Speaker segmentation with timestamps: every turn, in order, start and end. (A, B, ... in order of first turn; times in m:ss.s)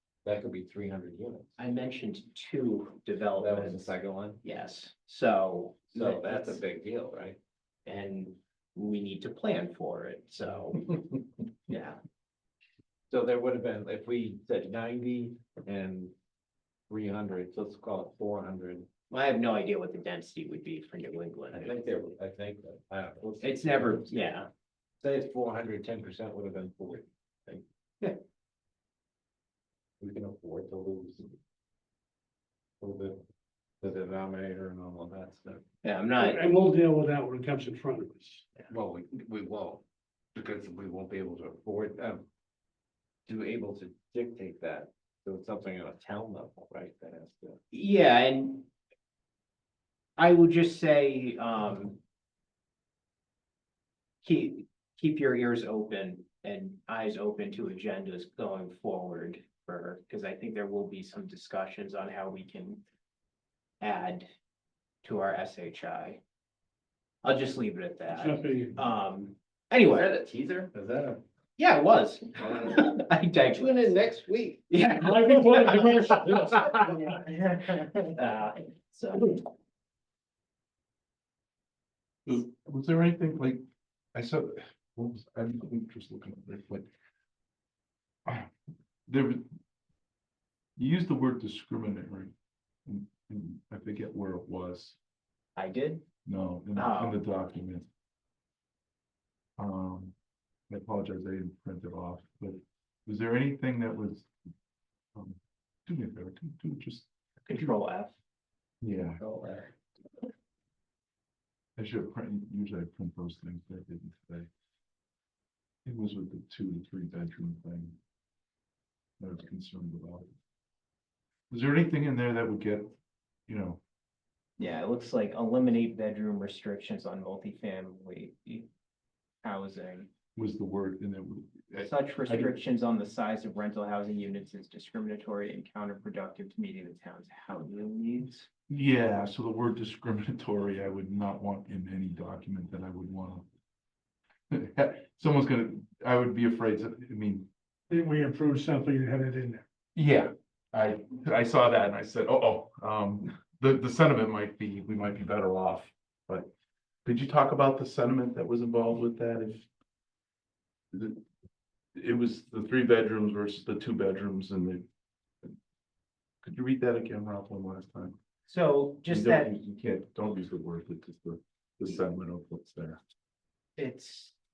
0:00.2-0:01.5 A
0:01.6-0:06.6 B
0:03.4-0:04.4 A
0:05.9-0:07.4 A
0:07.8-0:11.1 B
0:11.7-0:12.0 B
0:13.1-0:16.1 A
0:16.9-0:18.9 A
0:19.1-0:21.9 B
0:21.5-0:24.0 A
0:23.4-0:24.5 B
0:25.0-0:27.6 A
0:30.0-0:31.4 A
0:32.8-0:33.2 A
0:33.8-0:35.6 A
0:35.8-0:36.4 B
0:36.2-0:38.5 C
0:38.7-0:39.8 A
0:40.3-0:42.3 A
0:43.2-0:47.6 A
0:47.7-0:48.7 B
0:50.2-0:52.0 B
0:54.2-1:02.8 B
1:03.8-1:04.3 B
1:05.0-1:06.2 B
1:07.2-1:10.1 B
1:08.1-1:08.8 C
1:09.9-1:11.2 A
1:11.6-1:13.9 B
1:12.4-1:12.9 A
1:13.5-1:14.6 A
1:14.7-1:19.4 B
1:14.9-1:16.7 C
1:22.2-1:23.6 D
1:24.1-1:26.8 D
1:28.2-1:28.5 D
1:29.1-1:29.4 D
1:30.8-1:32.3 D
1:32.8-1:35.0 D
1:35.6-1:36.0 B
1:36.2-1:37.9 D
1:36.7-1:37.2 B
1:39.6-1:40.1 D
1:40.7-1:44.3 D
1:45.1-1:47.1 D
1:47.4-1:48.2 B
1:48.8-1:49.2 D
1:49.2-1:49.7 A
1:51.8-1:54.5 D
1:55.8-1:58.0 D
1:59.2-2:00.3 D
2:01.5-2:02.9 D
2:03.5-2:03.8 D
2:04.6-2:08.7 B
2:09.4-2:10.1 B
2:10.3-2:12.5 D
2:11.8-2:18.5 B
2:18.7-2:23.4 D
2:24.5-2:27.5 D
2:27.9-2:29.6 C
2:29.9-2:36.5 D
2:37.0-2:39.7 D
2:40.9-2:41.2 D
2:42.0-2:44.8 D
2:46.4-2:48.2 D
2:48.4-2:49.5 B
2:49.1-2:53.0 D
2:53.8-2:54.3 B